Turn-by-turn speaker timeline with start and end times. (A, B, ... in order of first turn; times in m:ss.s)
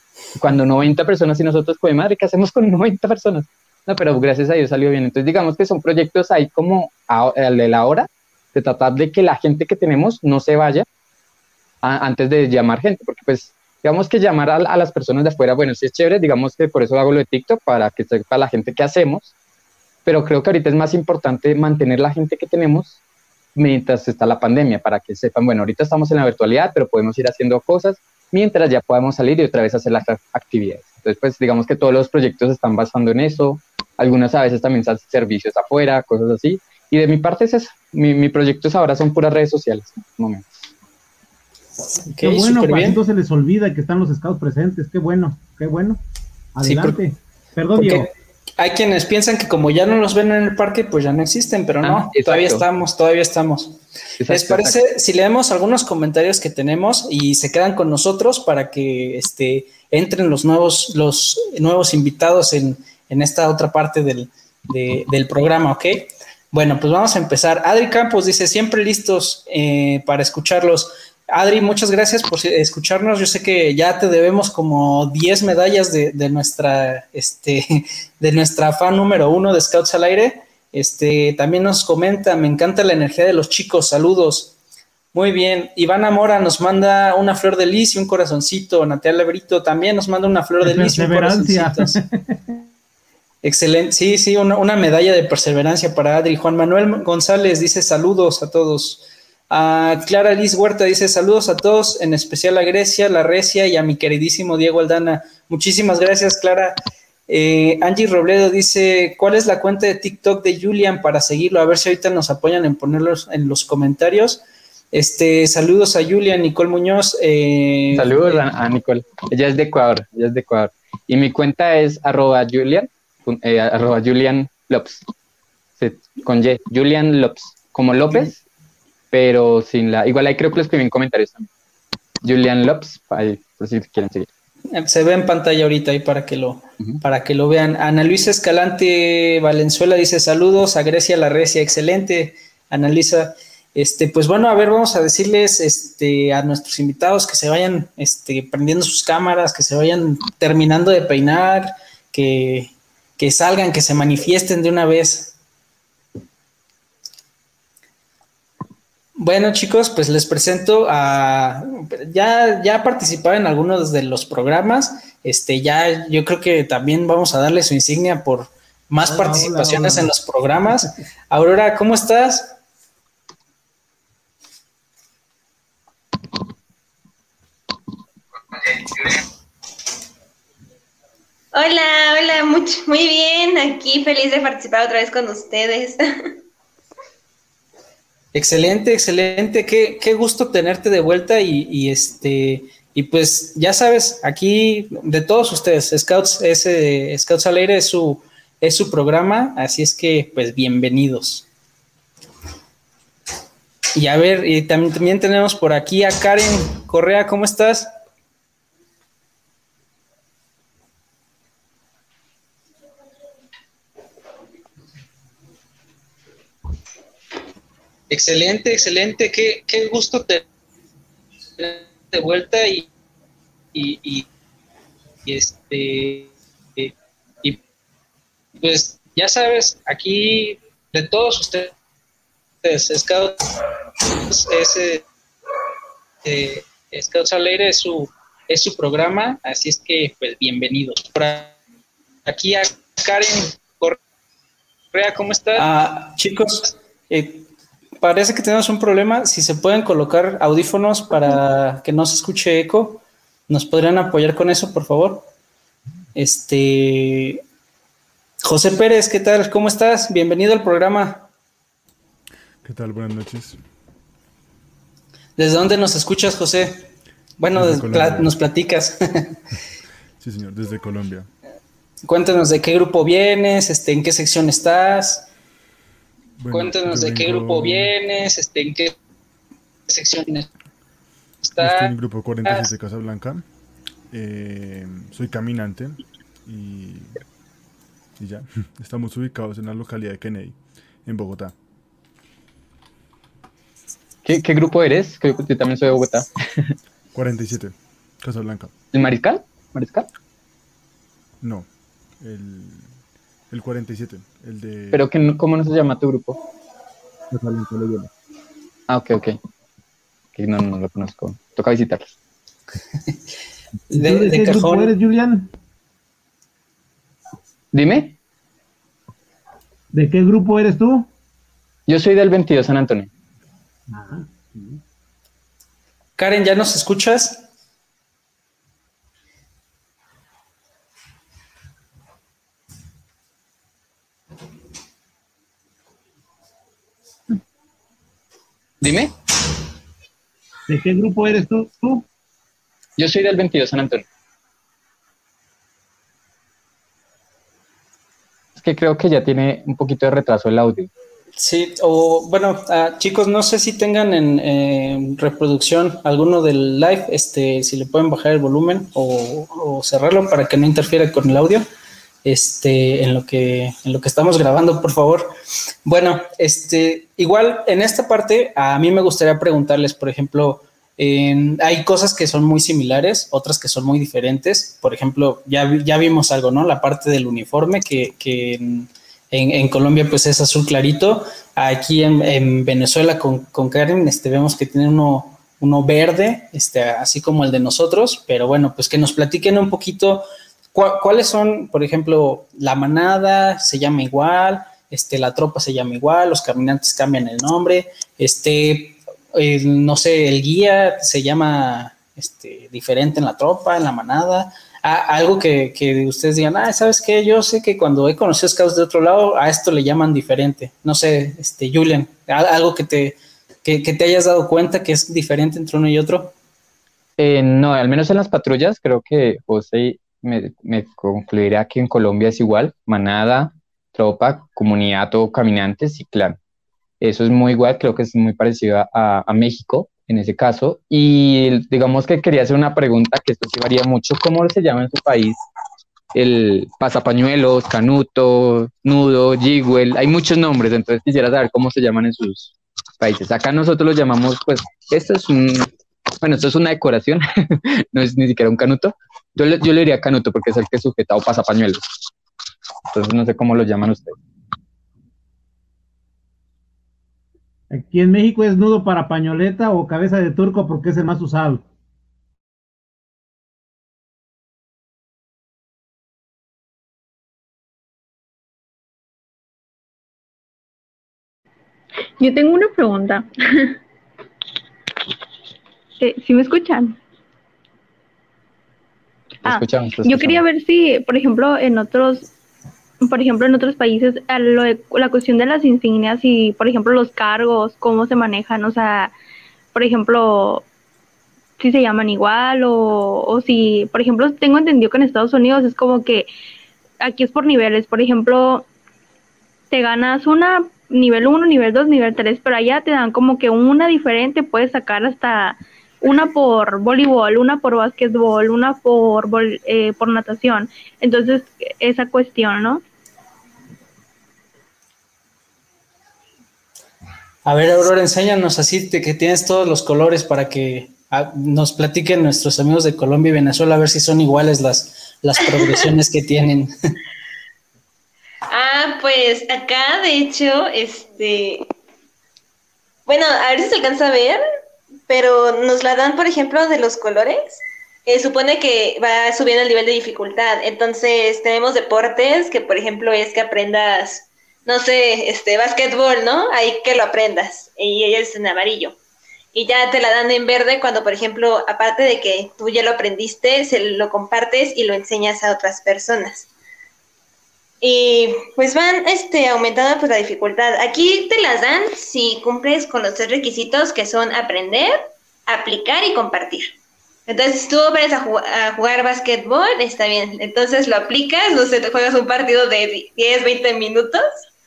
0:00.4-0:10.8 A
0:11.8-0:19.3 A
0:20.0-0:23.0 A
0:23.6-0:40.6 A
0:42.1-0:43.0 B
0:42.1-0:46.0 C
0:46.6-0:48.1 C
0:46.6-0:47.0 B
0:47.8-1:24.5 B
0:51.8-0:52.6 A
0:54.2-0:54.8 A
1:25.1-1:32.0 B
1:30.6-1:32.5 C
1:33.4-1:58.4 B
1:57.9-2:05.0 A
2:05.8-2:08.4 A
2:09.1-2:11.5 A
2:12.2-2:14.3 A
2:14.7-2:35.3 B
2:39.2-2:52.6 B
2:49.0-2:50.1 C
3:01.5-3:06.3 D
3:08.3-3:21.4 B
3:23.9-3:27.9 B
3:38.1-3:40.4 B
3:41.6-3:42.8 B
3:43.7-3:44.2 B
3:45.2-3:46.9 B
3:48.6-3:51.7 B
3:52.6-3:53.4 B
3:54.2-3:55.0 B
3:56.2-4:01.6 B
4:02.2-4:04.0 B
4:04.9-4:07.5 B
4:08.0-4:15.2 B
4:16.1-4:17.4 B
4:18.4-4:21.3 B
4:22.6-4:23.6 E
4:25.4-4:26.9 B
4:27.4-4:29.4 B
4:27.5-4:28.4 E
4:30.2-4:31.3 E
4:32.0-4:35.3 B
4:36.4-4:37.9 E
4:36.5-4:38.9 B
4:39.9-4:40.5 B
4:41.4-4:42.7 B
4:41.6-4:43.4 E
4:44.1-4:47.2 E
4:48.2-4:51.5 E
4:54.2-4:56.7 A
4:57.1-4:58.7 E
4:58.9-5:00.1 A
5:01.4-5:01.7 E
5:02.2-5:02.9 E
5:03.5-5:05.0 E
5:04.9-5:06.4 A
5:07.3-5:08.1 E
5:08.9-5:09.4 A
5:10.3-5:12.1 A
5:13.9-5:14.9 B
5:13.9-5:15.5 C
5:17.7-5:18.1 A
5:19.9-5:21.1 C
5:21.9-5:23.1 A
5:23.9-5:24.8 C
5:26.2-5:27.4 B
5:38.8-5:39.1 A
5:40.7-5:42.0 C
5:43.0-5:44.0 A
5:48.6-5:50.9 A
5:51.4-6:01.6 B
6:02.2-6:05.3 B
6:05.8-6:56.3 B
6:57.2-7:06.4 A
7:07.0-7:15.4 A
7:16.1-7:31.8 A
7:32.9-7:34.2 A
7:37.7-7:41.6 C
7:52.2-7:53.8 F
7:56.0-7:57.0 F
7:59.4-8:02.3 F
7:59.4-8:00.4 A
8:03.0-8:09.1 F
8:09.7-8:10.6 F
8:11.6-8:16.3 F
8:17.0-8:18.7 F
8:19.7-8:32.8 F
8:37.4-8:46.7 B
8:48.5-8:51.7 D
8:53.1-8:54.4 D
8:55.1-9:09.0 D
9:09.5-9:16.5 D
9:17.8-9:26.7 D
9:27.3-9:34.2 D